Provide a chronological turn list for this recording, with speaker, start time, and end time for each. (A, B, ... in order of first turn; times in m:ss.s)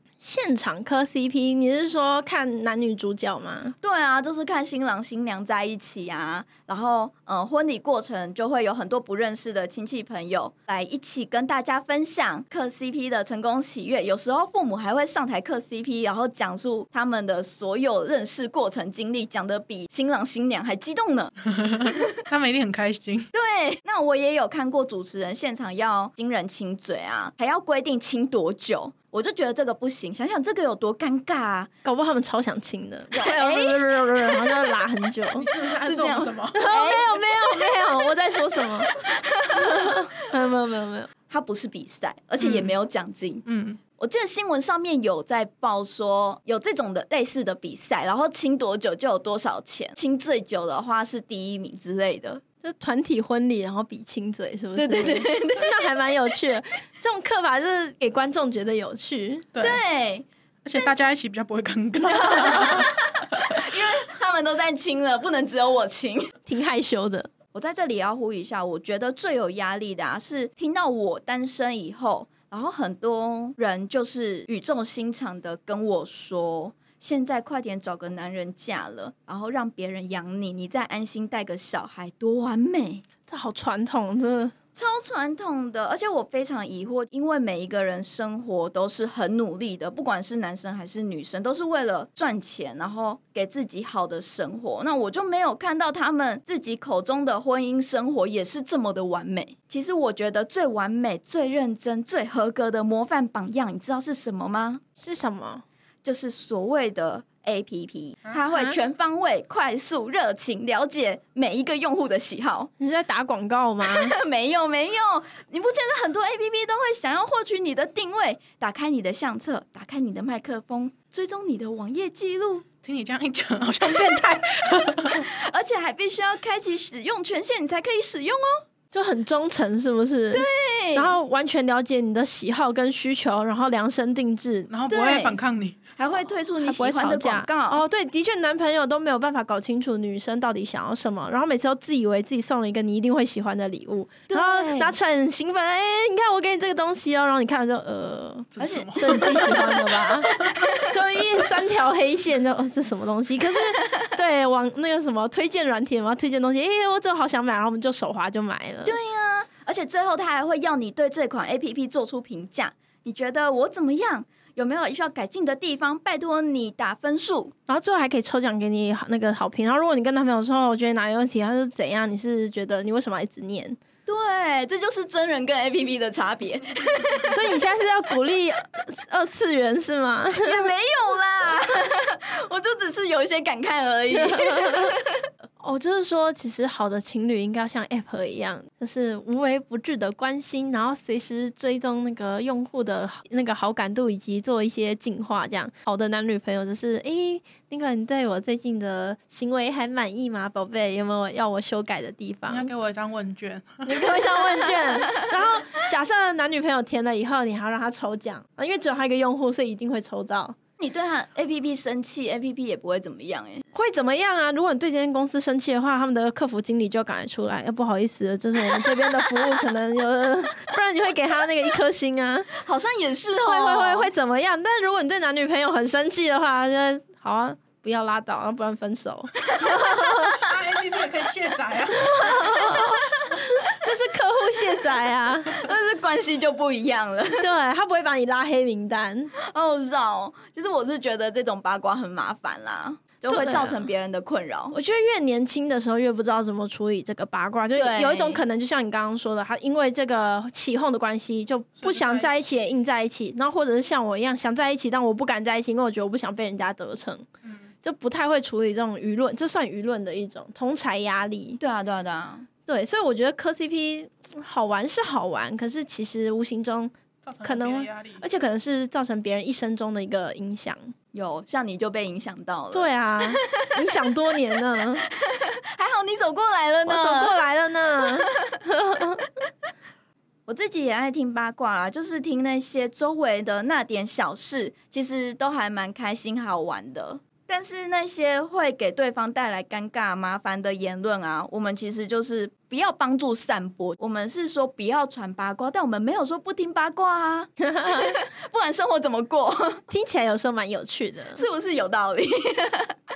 0:00.2-0:03.7 A
0:03.8-0:22.0 B
0:21.5-0:23.3 C
0:23.3-0:31.7 B
0:31.8-0:35.5 A
0:33.1-0:34.0 B
0:35.4-0:36.6 C
0:35.8-0:37.8 B
0:36.5-0:38.9 A
0:39.0-0:39.7 B
0:39.6-0:41.1 A
0:41.3-0:43.4 B
0:42.4-0:42.7 C
0:43.4-0:43.8 C
0:44.0-0:52.4 B
0:52.6-0:59.5 A
0:54.8-0:55.7 B
0:59.5-0:59.8 C
0:59.6-1:00.9 B
1:00.6-1:02.9 C
1:02.1-1:02.8 A
1:02.2-1:06.3 B
1:06.4-1:07.3 A
1:07.5-1:23.0 B
1:23.3-1:24.5 A
1:24.7-1:44.8 B
1:45.0-1:45.6 A
1:46.0-1:52.7 B
1:48.5-1:48.8 A
1:52.8-1:54.1 A
1:54.0-2:02.6 B
2:02.8-2:05.2 C
2:05.1-2:08.5 B
2:08.9-2:14.7 A
2:10.3-2:11.2 B
2:14.7-2:15.8 C
2:14.9-2:15.4 B
2:16.0-2:17.8 B
2:16.6-2:39.0 A
2:24.3-2:25.0 B
2:28.5-2:29.8 C
2:28.6-2:29.6 B
2:38.8-2:47.5 B
2:47.7-2:53.8 A
2:54.0-2:57.3 B
2:57.3-3:00.7 A
3:00.4-3:04.9 B
3:04.1-3:04.9 A
3:05.6-3:22.7 A
3:22.5-3:23.9 C
3:23.8-3:30.6 A
3:30.8-3:33.6 B
3:33.7-3:42.5 A
3:42.6-3:44.1 B
3:43.4-3:50.4 A
3:50.4-3:52.5 C
3:52.0-3:53.0 A
3:53.6-3:55.6 A
3:55.6-3:57.4 B
3:57.4-3:59.3 A
3:59.5-4:04.7 B
4:03.3-4:03.8 A
4:04.7-4:17.2 A
4:07.8-4:08.4 B
4:11.8-4:12.6 C
4:17.8-4:21.6 A
4:21.6-4:22.5 B
4:22.7-4:30.9 A
4:27.2-4:28.2 C
4:31.1-4:33.6 B
4:32.7-4:35.0 A
4:35.3-4:37.4 B
4:36.8-4:39.2 A
4:40.5-4:59.8 B
4:57.7-4:58.1 A
4:59.9-5:01.4 A
5:01.3-5:02.9 B